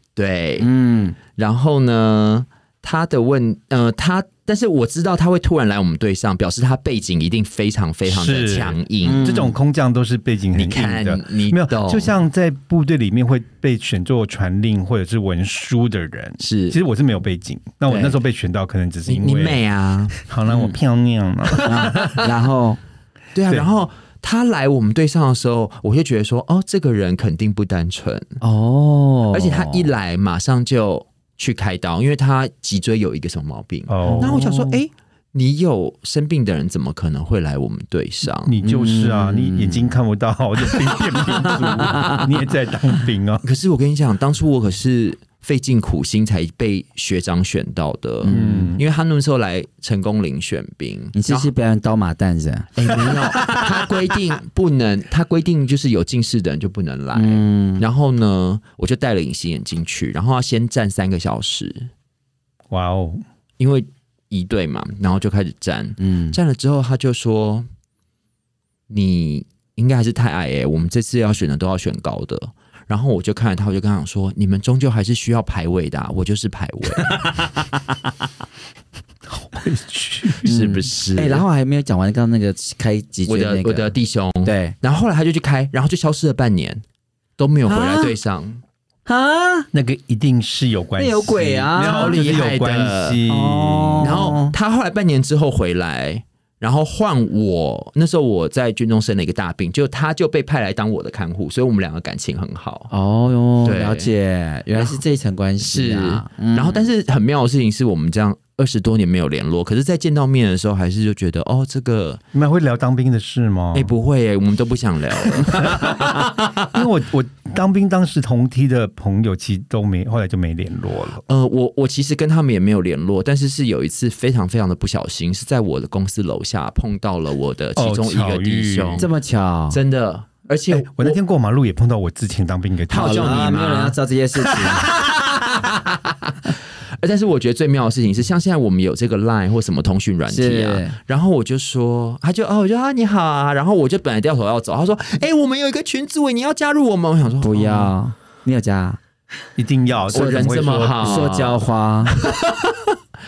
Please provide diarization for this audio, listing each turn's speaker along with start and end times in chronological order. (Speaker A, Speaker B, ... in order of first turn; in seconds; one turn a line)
Speaker A: 0.2-0.7
Speaker B: 0.6-1.2
Speaker A: 1.3-9.5
Speaker C: 8.1-19.6
Speaker B: 9.0-9.5
Speaker A: 10.6-12.2
Speaker A: 16.4-16.8
Speaker A: 17.9-18.2
Speaker A: 19.1-20.3
Speaker C: 20.2-22.2
Speaker A: 21.5-22.3
Speaker B: 21.6-22.8
Speaker A: 23.4-28.4
Speaker B: 28.4-29.9
Speaker A: 29.3-38.5
Speaker C: 33.9-34.4
Speaker B: 34.0-34.7
Speaker C: 38.4-43.4
Speaker B: 38.6-39.9
Speaker B: 41.4-42.3
Speaker A: 43.4-51.5
Speaker B: 48.2-48.8
Speaker C: 48.3-48.8
Speaker B: 51.1-53.3
Speaker A: 52.8-61.9
Speaker B: 57.1-57.9
Speaker C: 62.7-63.2
Speaker A: 63.6-67.7
Speaker B: 66.0-66.4
Speaker A: 68.9-77.3
Speaker B: 77.1-77.8
Speaker C: 79.3-80.5
Speaker A: 80.4-81.4
Speaker B: 80.4-83.9
Speaker A: 83.3-86.8
Speaker B: 84.5-84.8
Speaker A: 87.4-88.6
Speaker B: 87.7-88.1
Speaker B: 89.1-89.7
Speaker C: 89.7-94.4
Speaker B: 91.0-92.2
Speaker A: 91.8-93.2
Speaker B: 93.3-94.5
Speaker A: 94.0-102.9
Speaker B: 102.9-106.8
Speaker A: 103.6-104.1
Speaker A: 104.8-105.0
Speaker A: 105.6-112.2
Speaker C: 112.3-113.9
Speaker A: 113.7-116.7
Speaker C: 115.6-116.1
Speaker C: 116.7-121.2
Speaker A: 121.3-129.1
Speaker C: 127.8-129.1
Speaker B: 129.0-129.8
Speaker A: 129.7-131.2
Speaker C: 130.7-133.6
Speaker A: 132.9-147.9
Speaker B: 132.9-134.9
Speaker B: 140.3-141.0
Speaker B: 147.4-149.0
Speaker C: 149.6-151.3
Speaker A: 150.1-152.9
Speaker B: 150.1-152.2